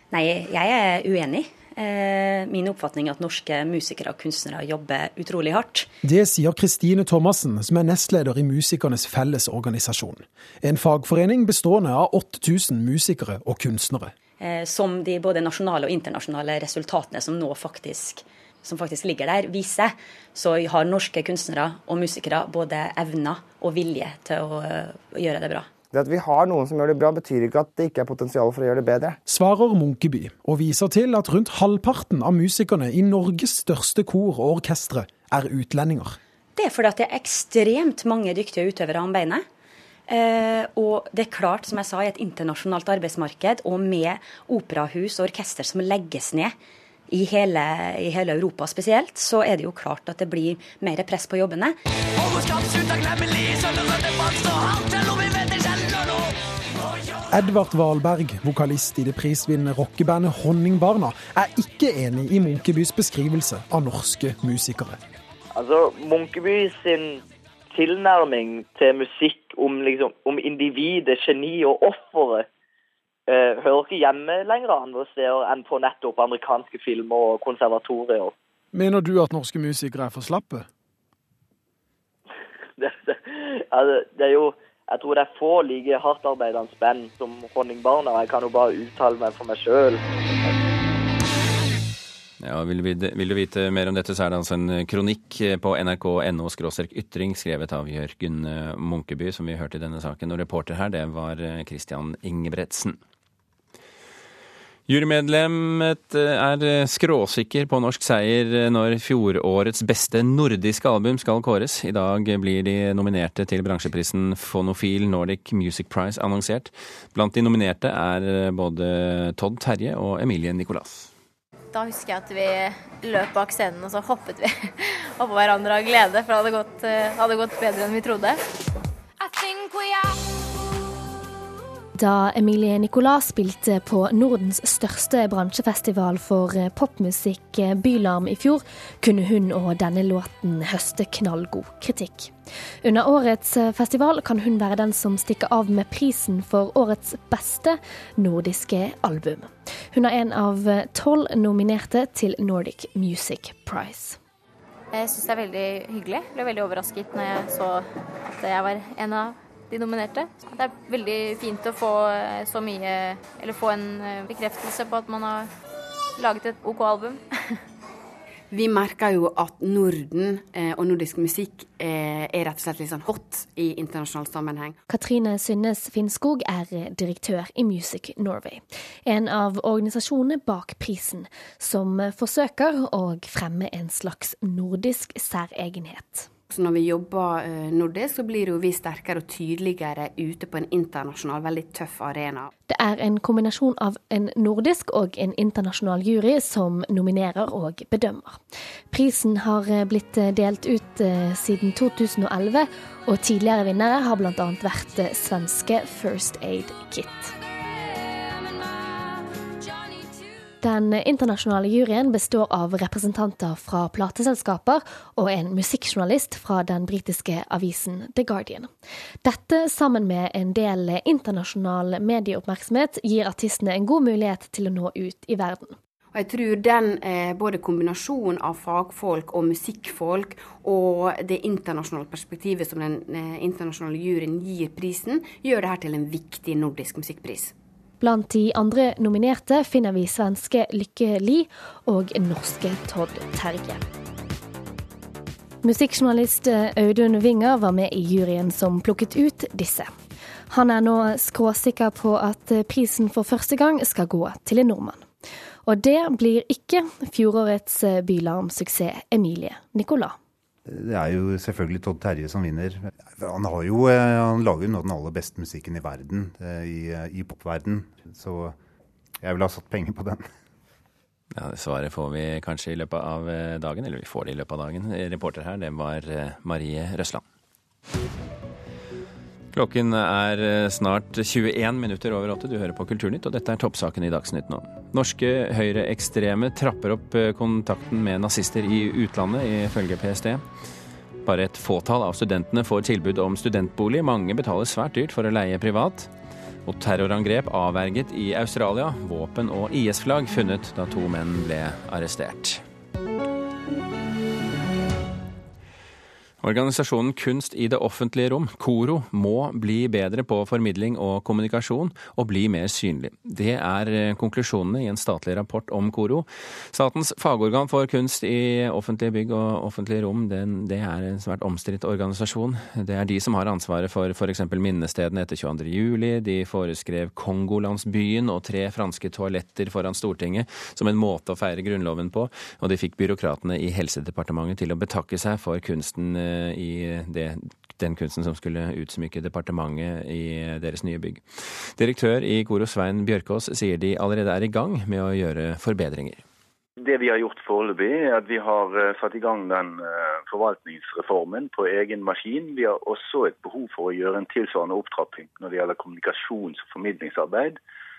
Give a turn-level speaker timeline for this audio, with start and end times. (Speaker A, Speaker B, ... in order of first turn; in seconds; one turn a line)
Speaker A: 0.1-5.9
Speaker B: 6.0-14.1
Speaker A: 14.4-25.7
Speaker C: 25.9-29.2
Speaker B: 29.2-36.2
Speaker A: 36.5-39.4
Speaker A: 40.1-46.5
Speaker A: 47.1-51.8
Speaker B: 57.3-65.0
Speaker D: 65.5-67.2
Speaker D: 67.7-72.5
Speaker D: 73.3-78.3
Speaker B: 78.7-80.7
Speaker D: 82.8-90.5
Speaker E: 92.4-103.0
Speaker E: 104.9-121.1
Speaker F: 121.7-128.4
Speaker G: 132.0-154.2
Speaker F: 154.9-165.5
Speaker F: 166.2-167.5
Speaker H: 168.5-174.8
Speaker G: 174.9-186.3
Speaker H: 186.5-192.5
Speaker G: 192.7-207.3
Speaker G: 210.6-218.7
Speaker G: 219.2-225.8
Speaker H: 226.1-237.5
Speaker G: 238.0-243.8
Speaker G: 245.6-249.9
Speaker G: 250.5-255.1
Speaker G: 255.6-260.1
Speaker I: 260.7-268.6
Speaker I: 269.2-270.3
Speaker E: 271.3-277.2
Speaker E: 279.5-290.4
Speaker E: 291.2-296.1
Speaker E: 296.6-302.6
Speaker E: 306.4-346.2
Speaker J: 346.8-357.6